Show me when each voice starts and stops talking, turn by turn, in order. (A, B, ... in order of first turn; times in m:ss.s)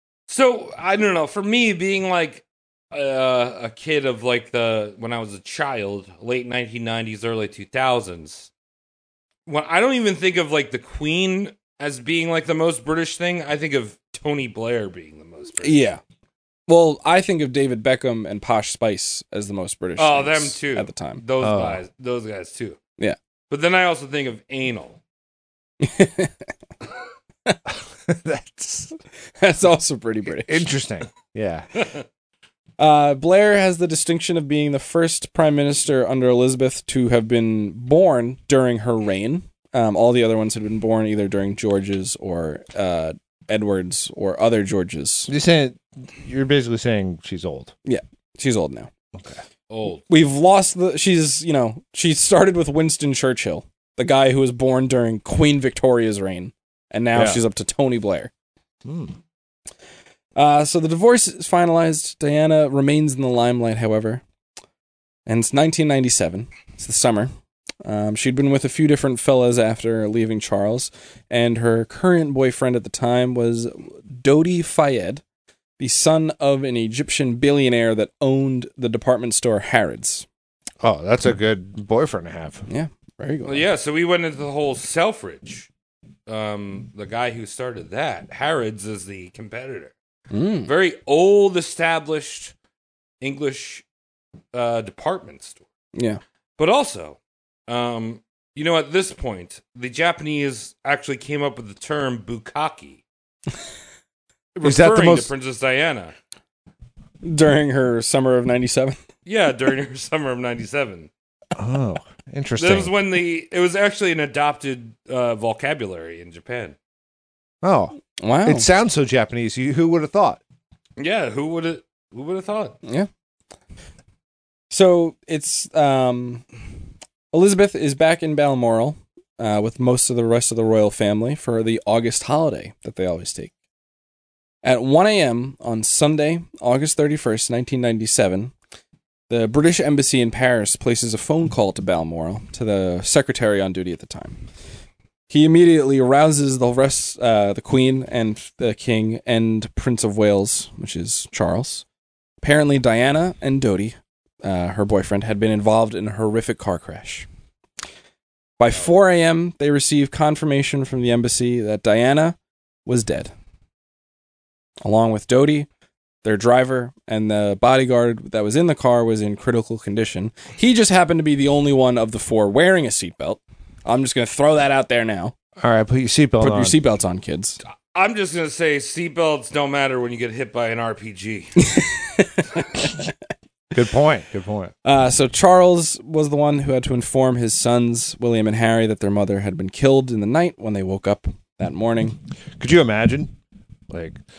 0:00.3-0:08.5 A
0:09.5-0:15.9 A
0:15.6-0:16.0 B
0:16.7-0:21.2 B
0:20.0-0:22.8 A
0:21.4-0:21.8 C
0:23.5-0:25.0 A
0:25.8-0:26.3 B
0:28.0-0:28.9 C
0:29.4-0:30.7 B
0:30.4-0:31.7 C
0:32.8-0:45.3 B
0:45.3-0:47.7 C
0:47.8-0:48.9 B
0:49.2-0:49.4 C
0:49.7-0:50.0 A
0:50.1-0:58.3 B
0:57.1-0:57.4 C
0:58.8-0:59.2 C
1:00.4-1:04.2 B
1:05.3-1:07.3 B
1:07.8-1:15.2 B
1:15.8-1:20.3 B
1:20.8-1:22.6 C
1:22.7-1:23.6 B
1:23.5-1:25.7 A
1:26.3-1:29.9 A
1:30.3-1:30.7 B
1:30.7-1:32.5 A
1:33.2-1:33.8 A
1:34.5-1:35.6 A
1:36.0-1:36.2 B
1:36.6-1:43.0 A
1:44.6-1:46.1 A
1:44.6-1:45.3 C
1:47.2-1:49.0 B
1:49.2-1:51.1 A
1:51.6-1:52.9 C
1:52.6-1:56.8 A
1:57.6-2:00.4 C
1:58.2-1:58.7 B
2:01.0-2:02.8 A
2:02.8-2:03.1 B
2:04.7-2:06.4 B
2:07.3-2:13.5 B
2:14.6-2:18.5 B
2:19.3-2:24.4 B
2:25.3-2:31.8 B
2:32.4-2:37.3 B
2:38.6-2:43.3 B
2:44.8-2:45.7 B
2:46.2-2:55.4 B
2:55.6-2:56.8 C
2:56.4-2:57.6 B
2:57.9-3:01.6 A
3:01.6-3:02.8 B
3:03.7-3:04.7 C
3:04.8-3:12.2 B
3:12.6-3:13.3 C
3:13.9-3:14.2 C